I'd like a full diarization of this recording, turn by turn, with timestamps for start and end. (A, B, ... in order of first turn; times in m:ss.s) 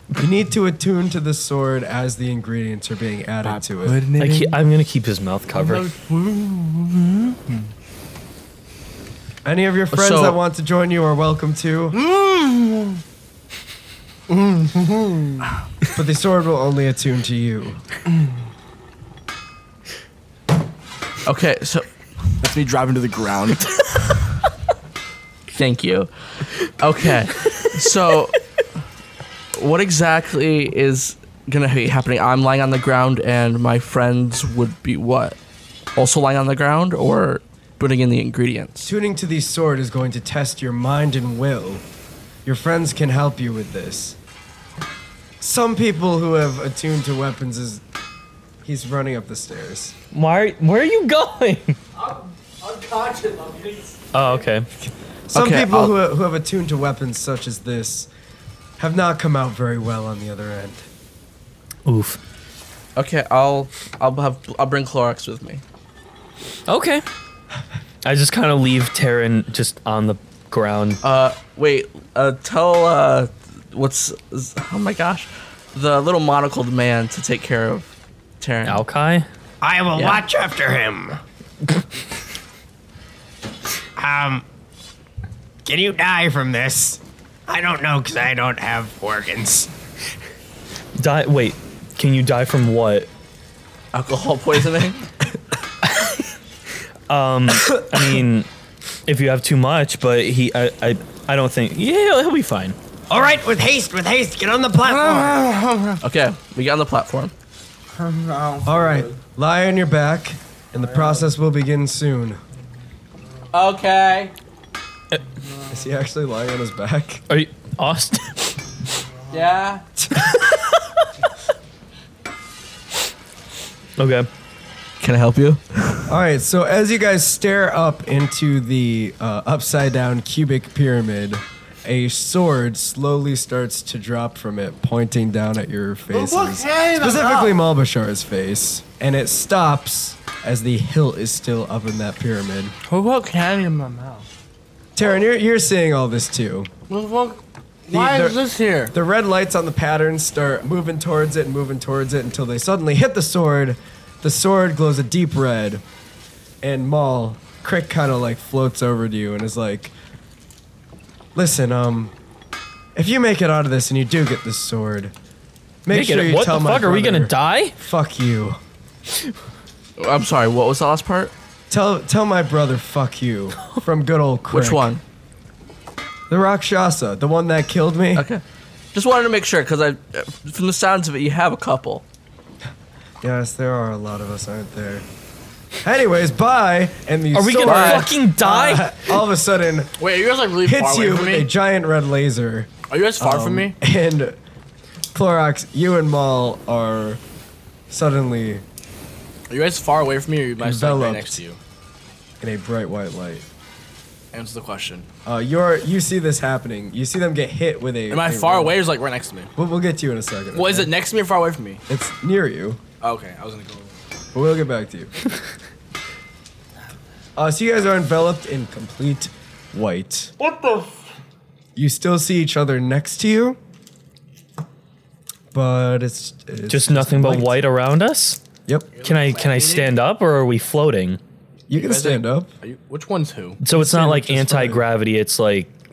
0:00.2-0:04.0 A
0:03.4-0:04.6 B
0:04.2-0:05.9 C
0:05.5-0:07.7 B
0:09.4-0:12.0 A
0:09.9-0:10.4 D
0:11.9-0:13.0 B
0:14.3-0:17.8 A
0:21.2-0:21.9 D
0:22.4-0:23.8 B
0:25.5-0:28.4 D
0:29.6-0:35.4 D
0:36.0-0:38.9 D
0:38.8-0:41.8 A
0:42.4-0:44.2 A
0:45.4-0:47.8 A
0:48.6-0:50.0 A
0:50.1-0:51.8 C
0:52.0-0:54.2 B
0:54.1-0:54.7 C
0:54.8-0:58.1 A
0:55.3-0:55.9 D
0:58.8-1:00.9 A
1:01.9-1:02.2 C
1:03.0-1:05.6 D
1:06.7-1:07.0 C
1:08.0-1:11.0 C
1:11.0-1:18.8 D
1:18.6-1:19.3 C
1:19.6-1:21.2 E
1:24.0-1:24.4 E
1:25.6-1:29.7 E
1:31.0-1:33.1 C
1:33.9-1:35.1 D
1:35.8-1:36.2 C
1:37.1-1:38.5 C
1:39.1-1:42.8 C
1:43.1-1:45.4 E
1:44.8-1:46.0 B
1:46.0-1:47.3 D
1:47.9-1:49.2 B
1:48.7-1:52.4 A
1:50.8-1:51.2 B
1:53.5-1:54.3 B
1:55.7-1:57.2 A
1:57.3-1:58.6 C
1:59.3-1:59.8 B
2:00.0-2:00.3 A
2:04.0-2:04.3 C
2:05.0-2:06.1 D
2:06.1-2:22.8 A
2:16.1-2:17.6 B
2:22.8-2:24.3 B
2:25.0-2:26.7 A
2:26.9-2:28.9 B
2:27.9-2:28.4 A
2:28.9-2:35.8 A
2:36.6-2:39.9 A
2:41.4-2:42.1 A
2:43.0-2:45.1 A
2:45.8-2:48.6 A
2:45.9-2:47.7 C
2:50.0-2:51.3 D
2:51.7-2:54.9 A
2:54.5-2:55.0 D
2:56.3-2:58.3 A
2:58.2-2:58.4 D
2:58.9-3:02.0 D
3:03.2-3:05.1 A
3:05.8-3:10.0 A
3:07.3-3:09.1 C
3:07.6-3:08.1 D
3:10.0-3:11.5 B
3:10.6-3:14.4 A
3:12.9-3:13.8 B
3:15.1-3:17.2 A
3:17.9-3:18.6 A
3:19.5-3:21.6 B
3:20.6-3:21.4 A
3:22.4-3:23.4 A
3:24.3-3:25.1 B
3:25.2-3:28.8 A
3:28.1-3:29.5 B
3:29.6-3:30.9 A
3:30.5-3:31.8 B
3:31.9-3:32.8 A
3:33.0-3:34.0 B
3:34.3-3:35.1 A
3:37.4-3:40.3 A
3:40.4-3:40.9 B
3:41.8-3:43.6 A
3:45.5-3:47.6 A
3:46.7-3:48.4 C
3:48.9-3:50.0 B
3:49.0-3:51.2 C
3:51.7-3:52.5 A
3:51.8-3:53.6 B
3:53.6-3:55.7 C
3:53.7-3:54.9 A